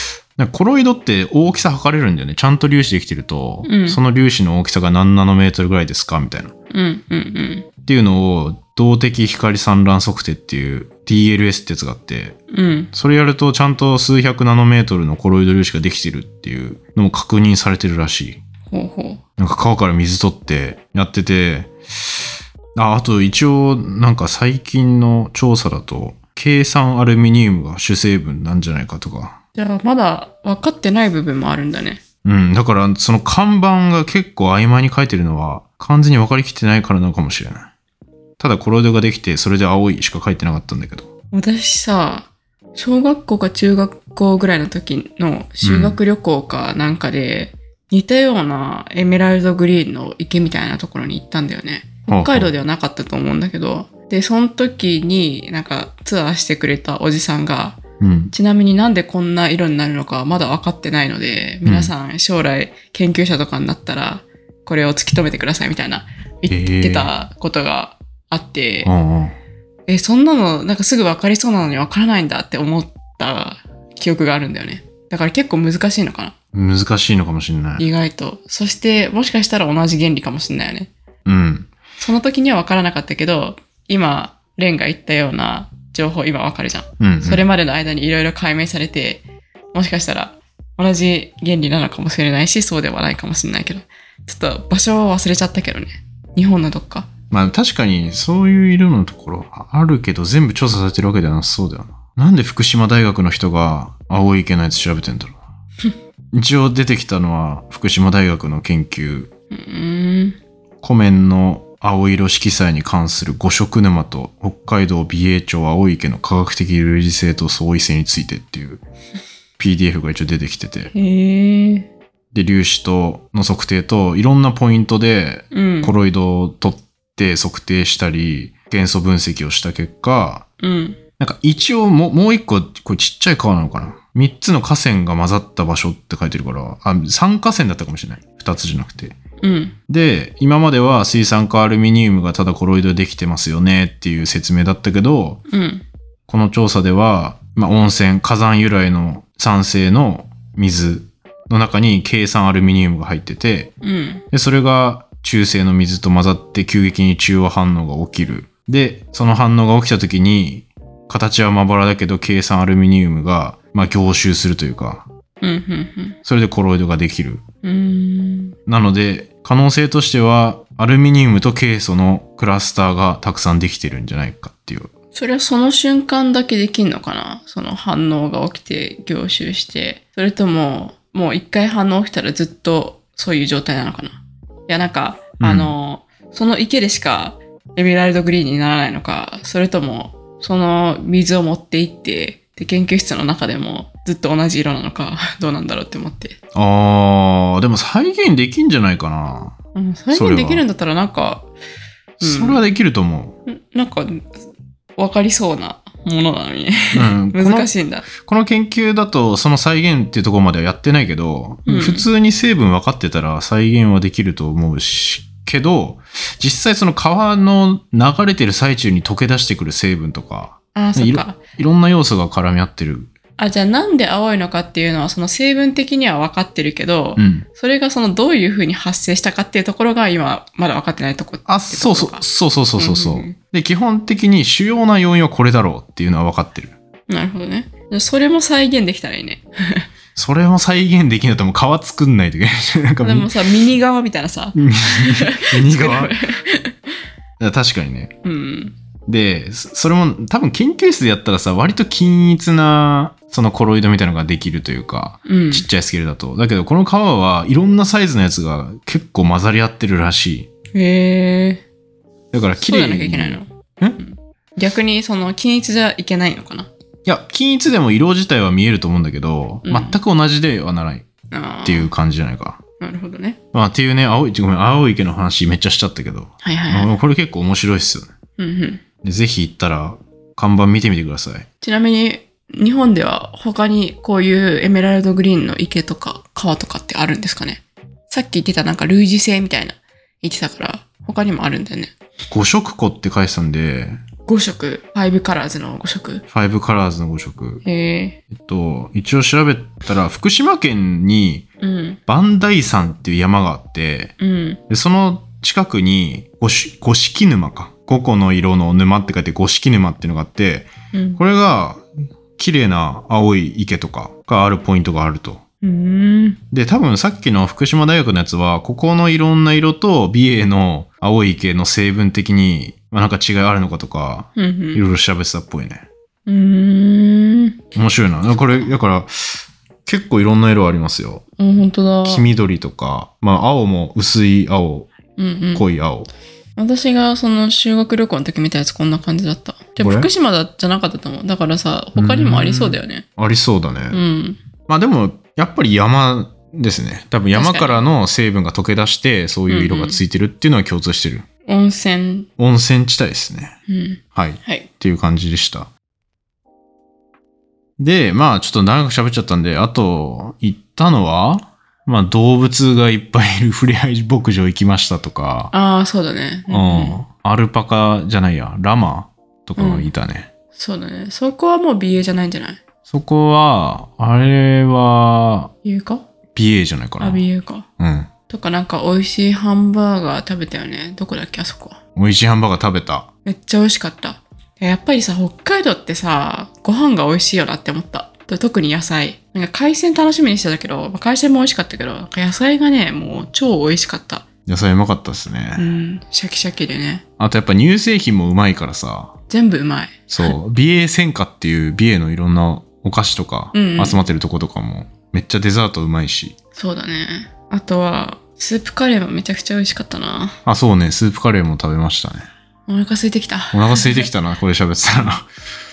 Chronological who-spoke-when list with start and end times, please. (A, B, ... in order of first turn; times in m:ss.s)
0:00.4-0:06.5 A
0:03.6-0:04.0 B
0:06.7-0:07.6 B
0:07.8-0:12.4 A
0:12.5-0:12.9 B
0:12.9-0:18.4 A
0:18.7-0:19.2 B
0:19.4-0:22.2 A
0:22.7-0:29.4 A
0:29.6-0:32.0 B
0:32.2-0:37.7 A
0:38.4-0:41.1 A
0:41.3-0:57.8 B
0:45.6-0:46.0 A
0:52.1-0:52.5 A
0:58.0-0:58.3 A
0:58.3-1:08.9 B
1:01.6-1:01.9 A
1:06.5-1:07.1 A
1:08.8-1:09.4 A
1:09.9-1:16.3 B
1:16.5-1:17.8 A
1:17.8-1:20.9 B
1:21.2-1:21.7 A
1:22.0-1:37.1 B
1:27.0-1:27.4 A
1:37.3-1:45.4 A
1:46.3-1:49.3 A
1:49.5-1:50.4 B
1:50.8-1:58.8 A
1:59.6-2:00.9 A
2:00.9-2:01.9 B
2:02.3-2:10.4 A
2:05.5-2:06.0 B
2:10.6-2:11.0 B
2:11.2-2:19.2 A
2:19.4-2:19.8 B
2:19.9-2:25.4 A
2:25.5-2:25.8 B
2:26.3-2:33.7 A
2:33.8-2:34.2 B
2:34.3-2:45.0 A
2:45.4-2:46.2 B
2:46.2-2:47.4 A
2:47.6-2:48.6 B
2:48.7-2:54.9 A
2:55.1-3:16.4 B
3:05.4-3:05.7 A
3:16.5-3:19.6 A
3:19.7-3:21.5 B
3:20.1-3:20.6 A
3:22.2-3:22.6 B
3:22.2-3:23.4 A
3:23.5-3:24.3 B
3:25.0-3:28.1 B
3:26.9-3:43.1 A
3:31.6-3:32.1 B
3:40.7-3:41.4 B
3:43.4-3:52.2 B
3:47.2-3:47.4 A
3:51.4-3:56.7 A
3:52.8-3:53.4 B
3:57.1-3:59.8 B
4:00.2-4:03.3 A
4:03.0-4:06.8 B
4:04.5-4:06.1 A
4:07.4-4:08.1 A
4:08.2-4:08.8 B
4:09.1-4:20.5 A
4:15.2-4:15.7 B
4:20.7-4:21.6 B
4:22.3-4:24.0 A
4:22.6-4:26.7 B
4:27.0-4:31.1 A
4:29.6-4:30.0 B
4:31.3-4:31.9 B
4:31.6-4:32.6 A
4:32.8-4:33.4 B
4:33.5-4:38.1 A
4:36.4-4:36.9 B
4:38.4-4:38.8 B
4:39.0-4:41.4 A
4:41.6-4:51.9 B
4:52.3-4:54.0 A
4:54.3-4:56.2 B
4:56.3-4:57.6 A
4:57.6-4:58.2 B
4:58.3-5:01.4 A
5:01.6-5:02.0 B
5:02.1-5:04.1 A
5:04.2-5:04.6 B
5:04.7-5:11.8 A
5:10.9-5:11.2 B
5:12.4-5:15.4 A
5:15.6-5:16.4 B
5:16.5-5:25.8 A
5:24.4-5:24.8 B
5:26.3-5:27.6 B
5:27.7-5:31.2 A
5:31.4-5:32.2 B
5:32.0-5:34.9 A
5:35.2-5:35.6 B
5:35.5-5:36.1 A
5:36.6-5:43.0 B
5:39.8-5:40.1 A
5:41.9-5:44.0 A
5:43.9-5:44.4 B
5:44.7-5:51.2 A
5:47.3-5:47.8 B
5:49.5-5:50.0 B
5:51.4-5:52.3 B
5:52.4-5:53.6 A
5:53.7-5:54.7 B
5:54.1-5:55.7 A
5:57.8-6:05.5 A
6:05.5-6:07.0 B
6:06.5-6:10.3 A
6:09.6-6:09.9 B
6:10.5-6:12.6 B
6:12.9-6:15.5 A
6:15.6-6:16.0 B
6:16.3-6:17.2 A
6:17.0-6:17.6 B
6:17.8-6:18.1 A
6:18.3-6:21.8 B
6:22.0-6:23.1 A
6:23.2-6:34.2 B
6:34.4-6:35.7 A
6:35.6-6:37.0 B
6:37.2-6:39.1 A
6:39.3-6:40.3 B
6:40.1-6:46.4 A
6:43.5-6:44.0 B
6:46.6-6:50.4 B
6:50.4-6:52.2 A
6:52.7-6:54.1 B
6:53.5-6:55.3 A